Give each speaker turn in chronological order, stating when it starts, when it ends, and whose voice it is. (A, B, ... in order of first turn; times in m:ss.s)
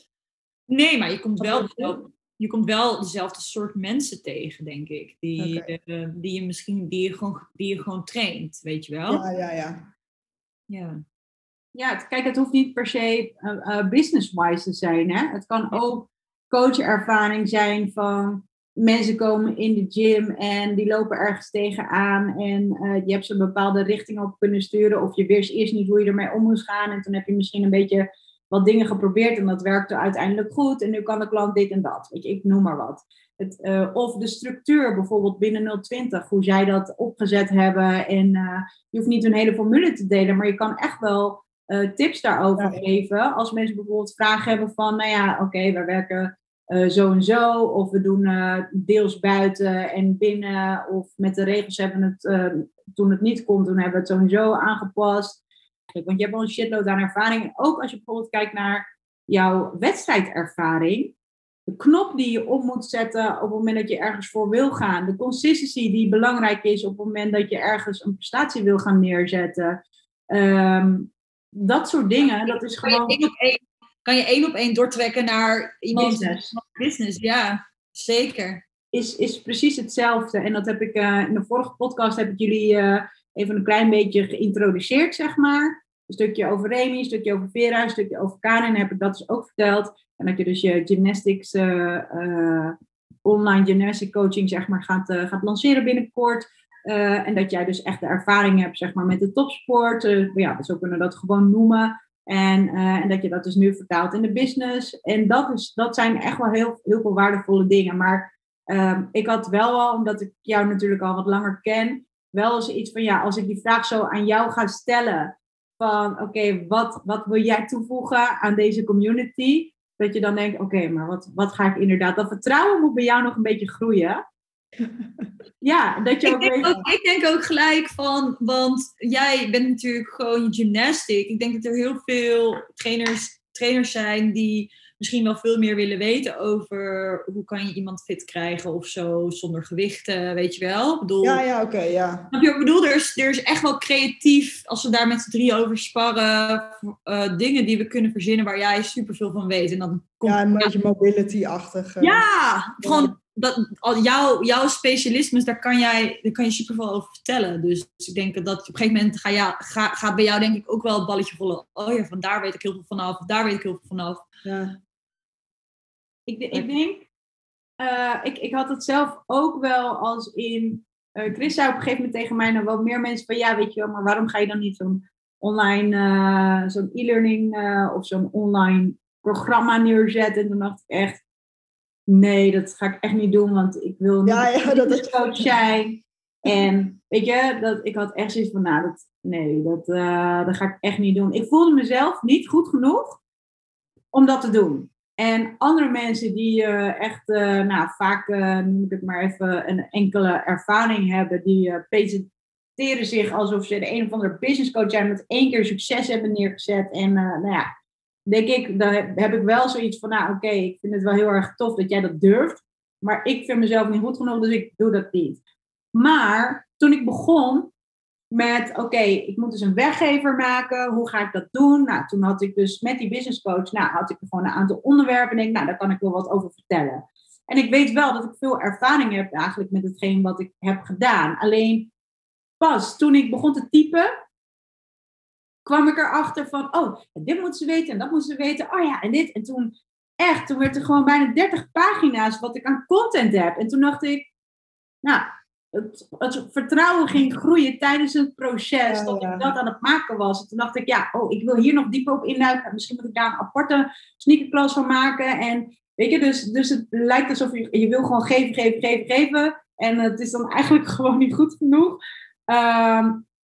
0:00.7-0:09.2 A
0:01.4-0:02.0 B
0:05.4-0:05.7 B
0:09.1-0:09.9 B
0:10.7-0:11.0 A
0:11.8-0:55.4 C
0:42.6-0:42.8 B
0:55.9-1:01.2 C
1:01.7-1:13.2 C
1:12.5-1:18.6 A
1:15.9-1:16.6 C
1:18.9-2:04.2 C
2:05.0-2:05.3 B
2:05.6-2:06.8 C
2:06.2-2:21.4 A
2:21.2-2:22.3 B
2:22.3-2:30.7 A
2:30.2-2:32.2 B
2:32.0-2:44.2 A
2:32.8-2:33.1 B
2:44.4-2:44.8 B
2:46.3-2:47.1 C
2:47.8-3:01.2 C
3:02.1-3:13.2 C
3:04.2-3:05.5 B
3:14.1-3:27.7 C
3:28.3-3:35.4 C
3:35.9-3:37.7 C
3:38.3-3:51.9 C
3:52.6-3:54.1 C
3:55.6-4:04.3 C
4:05.0-4:23.3 C
4:08.9-4:09.5 B